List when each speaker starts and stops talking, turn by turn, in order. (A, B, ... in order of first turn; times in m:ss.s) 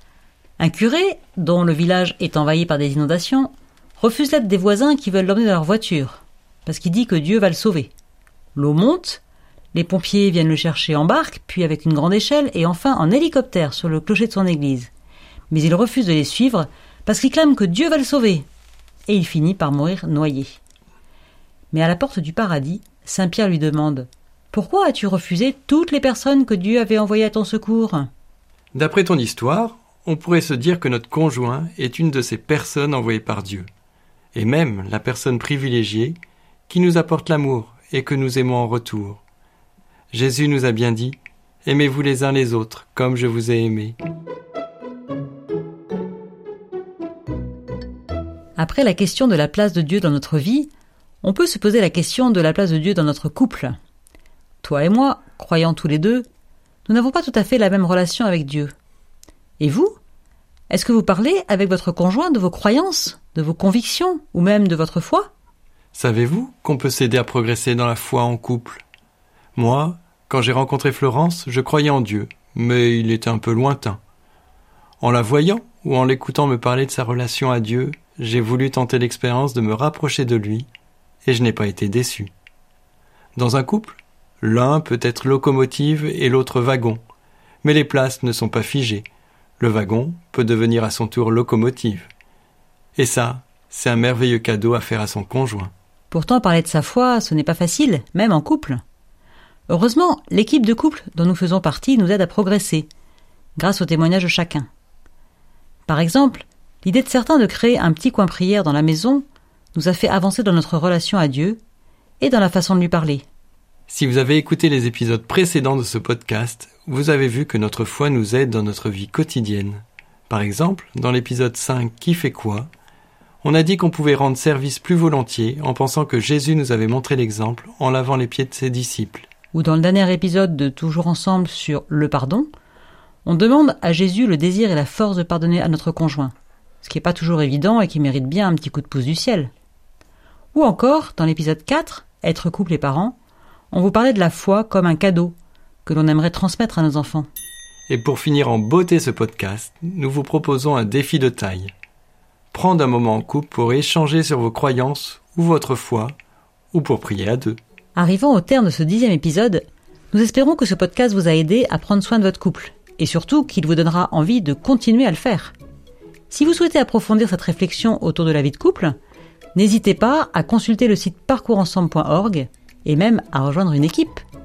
0:00.6-0:07.9 A
0:08.5-0:14.9 A
0:15.5-0:18.4 A
0:19.1-0:20.6 A
0:21.7-0:28.1 A
0:28.7-0:33.7 B
0:34.3-0:36.2 B
0:36.7-0:39.2 B
0:40.1-0:44.0 B
0:48.6-0:50.7 A
0:51.2-0:53.7 A
0:54.6-0:56.2 A
0:56.8-0:58.7 A
0:59.6-0:59.9 A
1:00.7-1:05.3 A
1:05.9-1:08.8 B
1:09.6-1:14.0 B
1:15.0-1:20.7 B
1:21.2-1:22.3 B
1:23.4-1:27.0 B
1:27.6-1:29.0 B
1:29.6-1:32.1 B
1:33.0-1:35.7 B
1:36.1-1:38.8 A
1:39.7-1:42.9 A
1:43.6-1:44.7 A
1:45.9-1:51.6 A
1:52.2-1:53.2 A
1:53.9-2:02.7 B
2:03.4-2:09.3 B
2:09.5-2:12.5 A
2:13.2-2:19.5 A
2:20.5-2:23.2 A
2:23.7-2:27.3 A
2:27.9-2:31.7 B
2:32.5-2:36.1 B
2:36.7-2:37.6 B
2:38.0-2:45.5 A
2:46.3-2:48.9 A
2:49.5-2:54.2 A